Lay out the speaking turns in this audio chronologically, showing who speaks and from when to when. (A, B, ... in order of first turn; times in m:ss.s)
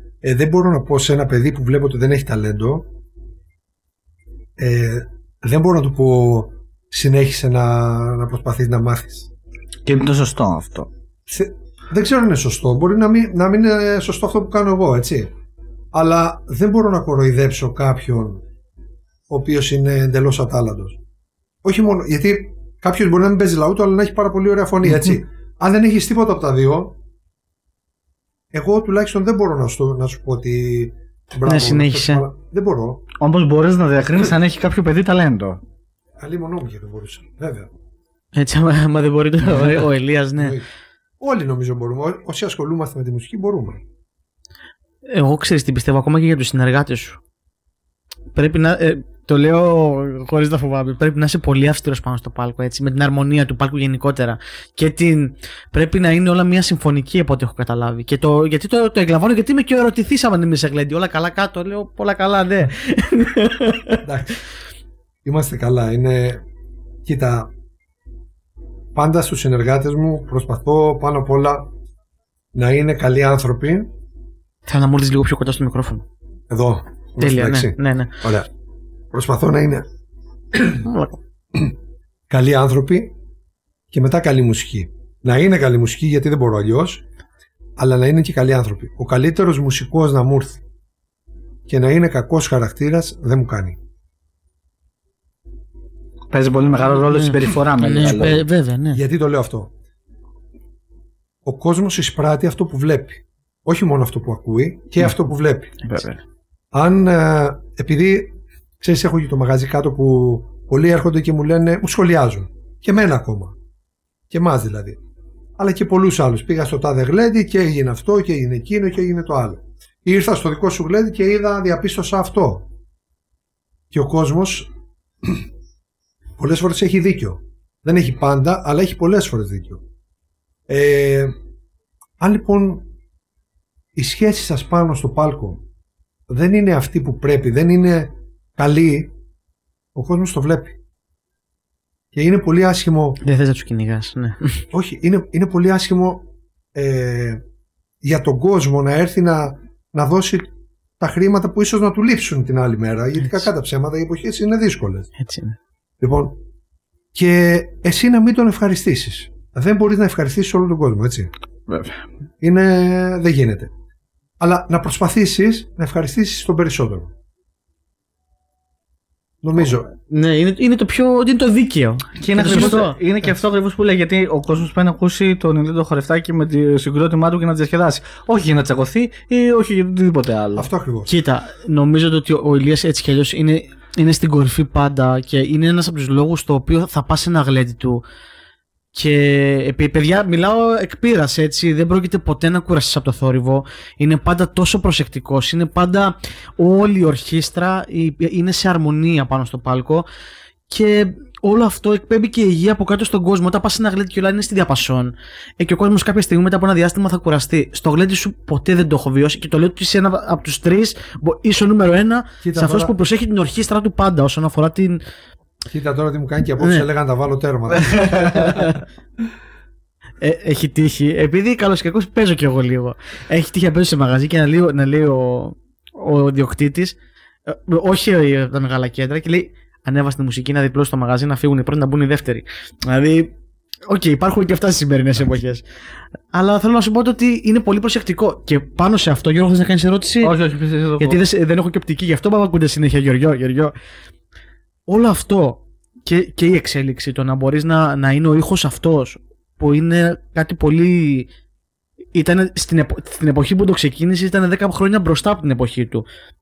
0:00.2-0:02.9 A
0:04.6-0:09.3 A
0:09.8-0:10.9 B
0:11.3-0:15.3 A
0:15.9-0:18.4 A
0:19.3-0:21.0 A
0:21.6-0:27.0 A
0:28.5-0:33.0 A
0:31.4-0:32.2 C
0:33.2-0:35.6 B
0:36.2-0:37.7 A
0:38.3-0:40.6 C
0:40.4-0:40.7 A
0:41.2-0:43.8 A
0:45.0-0:47.2 C
0:48.3-1:04.0 C
1:04.0-1:04.4 A
1:05.2-1:06.4 A
1:07.0-1:07.5 A
1:08.9-1:11.7 A
1:12.5-1:13.9 A
1:14.6-1:16.0 C
1:16.5-1:18.5 A
1:17.2-1:18.1 C
1:19.1-1:19.9 A
1:20.5-1:20.8 A
1:20.8-1:21.2 C
1:22.3-1:23.2 A
1:23.9-1:27.0 A
1:27.8-1:30.6 A
1:31.7-1:33.8 A
1:36.3-1:38.4 B
1:37.1-1:39.0 C
1:38.9-1:39.7 A
1:41.4-1:45.8 A
1:45.8-1:46.2 B
1:46.7-1:53.6 A
1:54.3-1:55.0 A
1:55.6-2:02.7 A
2:03.9-2:04.7 A
2:06.4-2:09.8 A
2:10.7-2:11.3 A
2:12.2-2:12.9 A
2:13.9-2:15.6 A
2:16.3-2:19.1 A
2:19.9-2:20.8 A
2:22.1-2:23.2 A
2:23.2-2:24.6 C
2:24.7-2:27.4 A
2:28.0-2:35.1 A
2:35.2-2:35.6 C
2:36.0-2:36.4 A
2:37.1-2:41.3 A
2:41.7-2:42.0 B
2:42.4-2:43.7 A
2:44.4-2:47.1 A
2:49.4-2:49.9 A
2:50.1-2:53.0 C
2:52.2-3:00.7 B
2:52.5-2:53.3 A
3:00.5-3:01.1 A
3:01.0-3:08.0 C
3:08.9-3:20.1 C
3:20.7-3:35.0 C
3:32.4-3:32.9 A
3:35.7-3:38.8 A
3:36.6-3:36.8 C
3:37.8-3:38.8 C
3:40.2-3:47.0 C
3:47.5-3:53.3 C
3:53.8-3:55.6 C
3:56.3-4:00.3 C
4:00.2-4:01.2 B
4:01.0-4:03.7 C
4:04.9-4:11.3 C
4:12.1-4:16.0 C